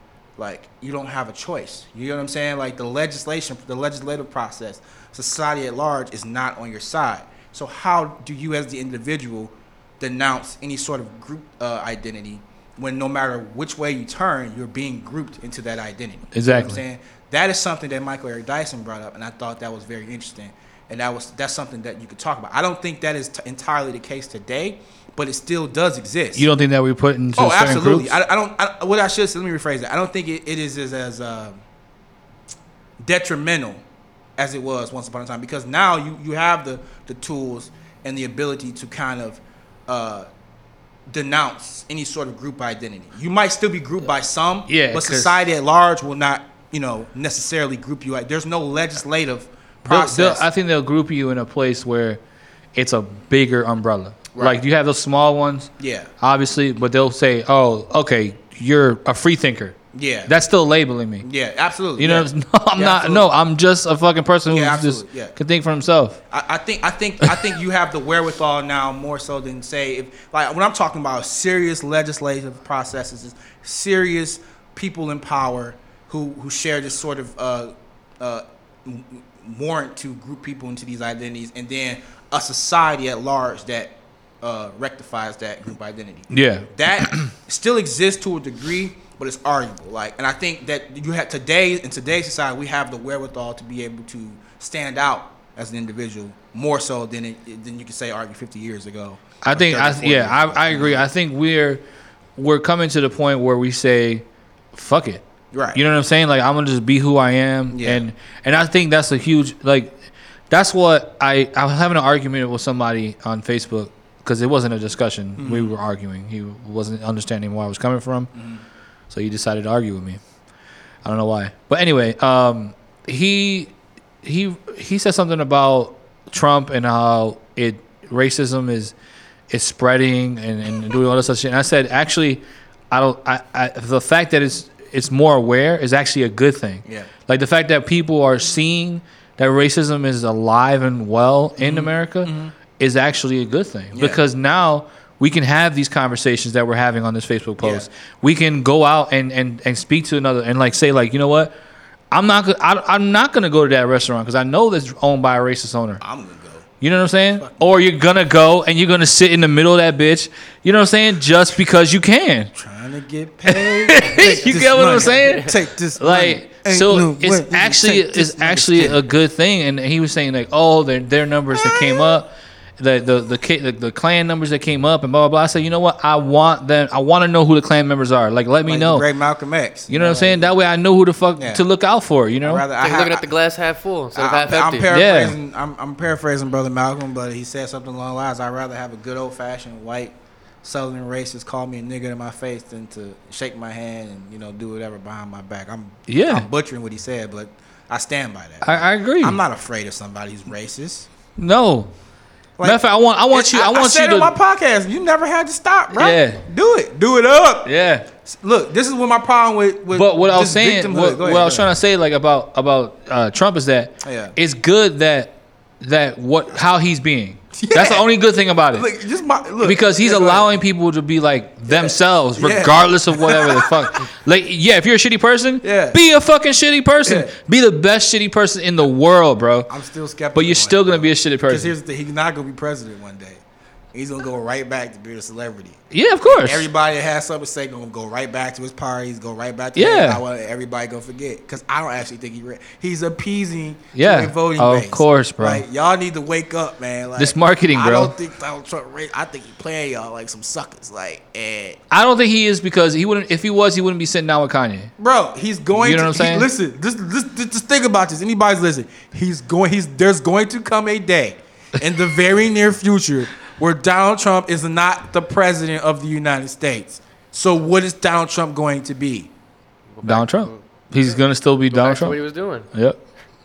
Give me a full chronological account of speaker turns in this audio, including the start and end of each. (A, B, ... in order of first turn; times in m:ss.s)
0:00.4-0:26.5 A
0:16.3-0:16.8 B
0:26.4-0:28.2 B
0:27.4-0:31.6 A
0:33.0-0:33.8 A
0:34.4-0:40.3 A
0:41.1-0:50.4 A
0:44.7-0:45.4 B
0:49.8-0:52.2 B
0:52.7-0:59.8 B
0:54.3-0:54.6 A
0:55.8-0:56.1 A
0:59.9-1:00.3 A
1:00.3-1:01.2 B
1:01.2-1:03.3 A
1:02.0-1:06.2 B
1:04.5-1:05.3 A
1:06.3-1:41.0 A
1:07.2-1:07.5 B
1:26.3-1:27.3 B
1:39.4-1:41.8 B
1:42.4-1:45.2 B
1:45.5-1:45.8 A
1:45.7-1:50.0 B
1:47.7-1:48.0 A
1:50.5-1:58.3 B
1:55.4-1:55.7 A
1:58.3-1:58.6 A
1:59.1-2:00.2 B
2:01.0-2:08.9 B
2:09.5-2:31.5 B
2:16.8-2:17.1 A
2:21.6-2:22.5 A
2:23.9-2:24.2 A
2:27.6-2:27.9 A
2:32.1-2:36.0 B
2:36.0-2:36.7 A
2:36.8-2:42.5 B
2:37.3-2:37.8 A
2:42.5-2:49.0 A
2:43.5-2:59.0 B
2:51.5-2:52.2 A
2:58.6-3:00.5 A
2:59.9-3:02.6 B
3:01.4-3:01.6 A
3:02.4-3:03.3 A
3:02.8-3:04.9 C
3:04.1-3:21.1 A
3:04.9-3:05.4 B
3:16.1-3:16.5 B
3:18.6-3:19.4 B
3:21.4-3:21.9 B
3:22.6-3:27.7 A
3:22.6-3:24.3 B
3:25.9-3:26.4 B
3:27.6-3:28.1 B
3:28.2-3:31.7 A
3:29.9-3:38.9 B
3:34.0-3:34.4 A
3:37.5-3:38.1 A
3:38.7-3:40.5 A
3:39.6-3:49.7 B
3:41.7-3:44.1 A
3:45.6-3:46.0 A
3:47.0-3:47.3 A
3:49.7-3:53.4 A
3:50.3-3:51.7 B
3:53.9-4:11.8 A
3:55.9-3:56.7 B
3:59.7-4:00.2 B
4:03.9-4:05.6 B
4:07.2-4:08.1 B
4:11.9-4:14.9 B
4:15.0-4:29.3 A
4:15.7-4:16.5 B
4:29.9-4:30.7 C
4:30.0-4:32.2 B
4:31.7-4:32.7 C
4:32.7-4:33.0 B